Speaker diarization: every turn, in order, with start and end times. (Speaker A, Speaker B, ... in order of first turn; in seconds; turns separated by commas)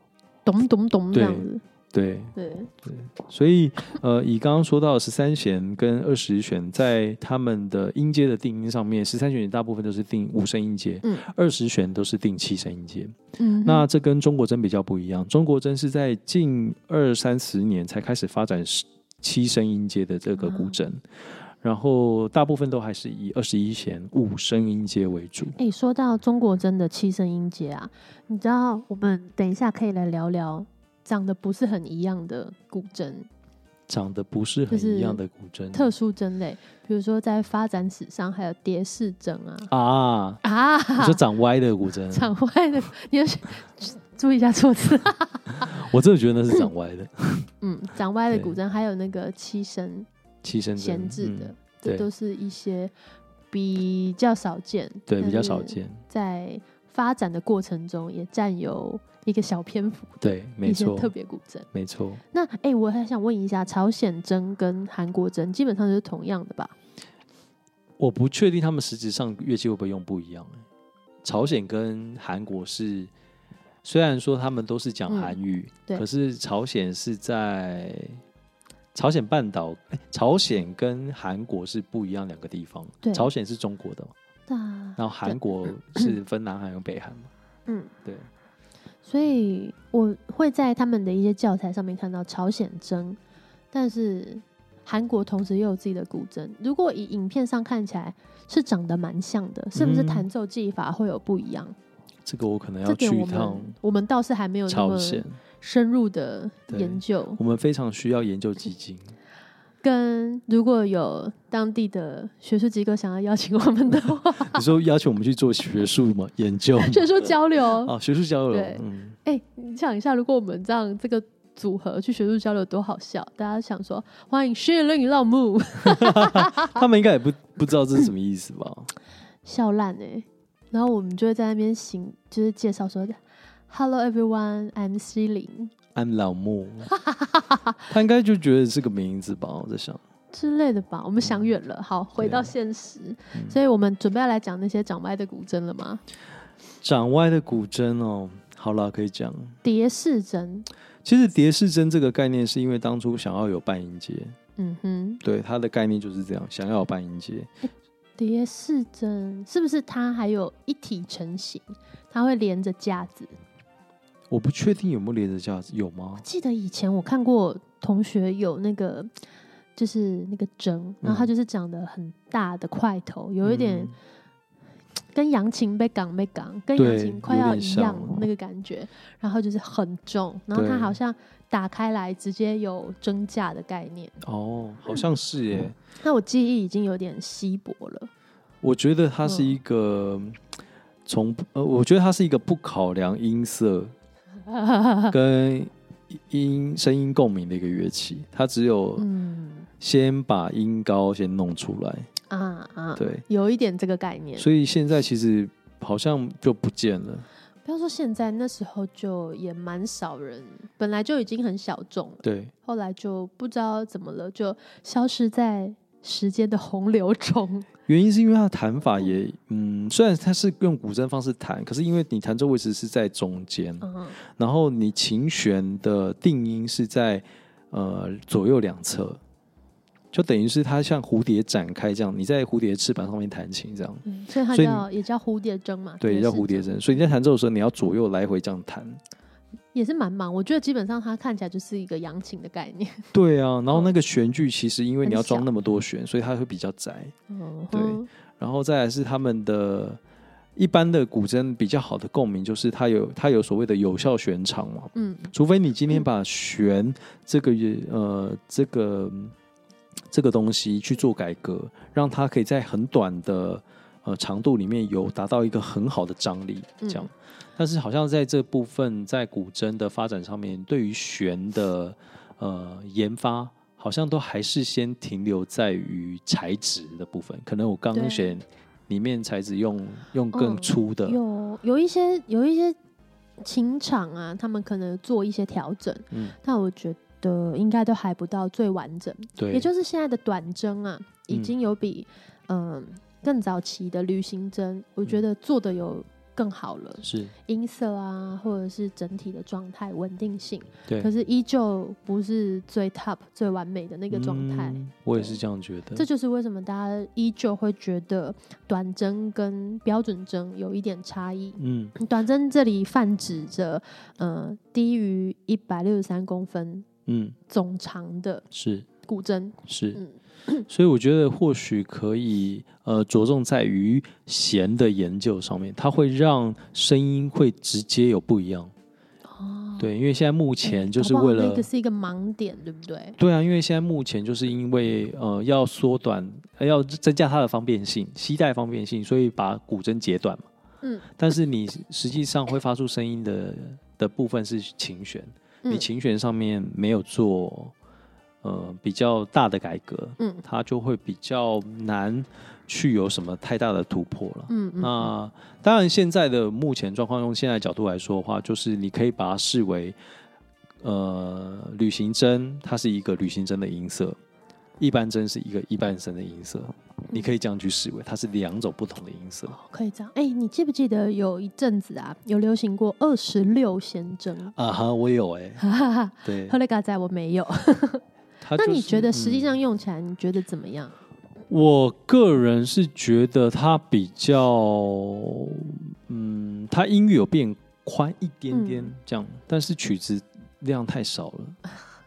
Speaker A: 0.5-1.6, Speaker B: 1.1-21.0, Speaker A: 2.4-2.7, Speaker A: 13.4-13.8, Speaker A: 20.4-20.7, Speaker B: 21.6-25.6, Speaker A: 25.6-33.3, Speaker B: 33.9-35.9, Speaker A: 34.7-35.2, Speaker A: 35.7-39.7, Speaker B: 39.7-40.4, Speaker A: 40.4-41.2, Speaker B: 41.0-42.3, Speaker A: 42.1-45.8, Speaker B: 45.6-47.5, Speaker A: 47.6-50.1, Speaker B: 48.3-48.6, Speaker B: 50.4-52.1, Speaker A: 50.8-52.9, Speaker A: 53.5-61.7, Speaker B: 55.1-56.0, Speaker B: 60.2-61.1, Speaker B: 61.7-62.2, Speaker A: 62.3-66.7, Speaker B: 68.0-70.6, Speaker B: 71.2-73.1, Speaker B: 73.8-78.2, Speaker A: 75.1-75.3, Speaker B: 78.9-84.1, Speaker A: 83.0-83.3, Speaker A: 84.5-85.4, Speaker B: 85.0-87.3, Speaker A: 87.7-87.9, Speaker A: 89.0-93.2, Speaker A: 93.7-101.7, Speaker B: 99.7-100.3, Speaker B: 102.2-103.8, Speaker A: 102.8-107.4, Speaker B: 104.7-105.4, Speaker B: 106.7-109.1, Speaker A: 109.8-114.6, Speaker B: 114.4-119.2, Speaker A: 116.8-117.9, Speaker A: 118.5-126.8, Speaker B: 125.8-128.9, Speaker A: 129.4-135.7, Speaker B: 135.9-136.9, Speaker A: 136.9-137.8, Speaker B: 137.9-140.0, Speaker A: 140.3-146.0, Speaker B: 142.2-142.5, Speaker B: 146.8-149.6, Speaker A: 149.6-150.7, Speaker B: 151.0-154.4, Speaker A: 154.6-155.2, Speaker B: 155.2-157.5, Speaker A: 158.2-163.3, Speaker B: 164.3-166.2, Speaker A: 166.2-169.1, Speaker A: 169.8-173.9, Speaker B: 171.0-171.3, Speaker B: 173.4-173.9, Speaker A: 175.1-184.1, Speaker B: 176.8-178.2, Speaker B: 180.5-181.0, Speaker B: 184.2-185.8, Speaker A: 186.0-188.1, Speaker B: 188.6-190.4, Speaker A: 189.3-189.6, Speaker B: 191.1-193.9, Speaker A: 194.5-195.1, Speaker B: 195.1-199.1, Speaker A: 199.0-199.7, Speaker B: 199.8-202.1, Speaker A: 202.3-204.5, Speaker B: 202.9-203.2, Speaker B: 204.4-207.2, Speaker A: 207.6-217.7, Speaker B: 212.2-212.5, Speaker B: 217.9-229.2, Speaker A: 223.8-224.2, Speaker B: 230.1-234.8, Speaker A: 234.0-236.8, Speaker B: 236.0-239.0, Speaker A: 239.7-243.1, Speaker B: 243.1-247.1, Speaker A: 245.0-245.4, Speaker A: 247.3-248.1, Speaker B: 247.7-250.0, Speaker B: 250.6-259.3, Speaker A: 254.9-255.3, Speaker B: 260.1-281.2, Speaker A: 266.8-267.1, Speaker A: 277.9-278.3, Speaker A: 280.3-282.8, Speaker A: 283.4-305.4, Speaker B: 289.4-289.7, Speaker B: 297.0-297.3, Speaker B: 304.1-306.1, Speaker A: 305.9-316.9, Speaker B: 311.6-311.9, Speaker B: 317.1-317.4, Speaker A: 317.5-318.4, Speaker B: 318.5-318.9, Speaker A: 319.0-320.6, Speaker B: 319.6-320.0, Speaker B: 320.7-328.7, Speaker A: 329.3-329.9, Speaker B: 329.8-331.7, Speaker A: 330.6-333.2, Speaker B: 333.2-340.4, Speaker B: 341.2-347.7, Speaker B: 348.4-360.0, Speaker A: 354.5-355.1, Speaker B: 360.8-364.2, Speaker B: 364.8-369.6, Speaker A: 369.5-374.5, Speaker B: 374.5-375.6, Speaker A: 375.6-378.0, Speaker B: 376.2-376.6, Speaker B: 378.4-379.6, Speaker A: 378.5-380.9, Speaker B: 381.5-391.6, Speaker A: 388.5-388.9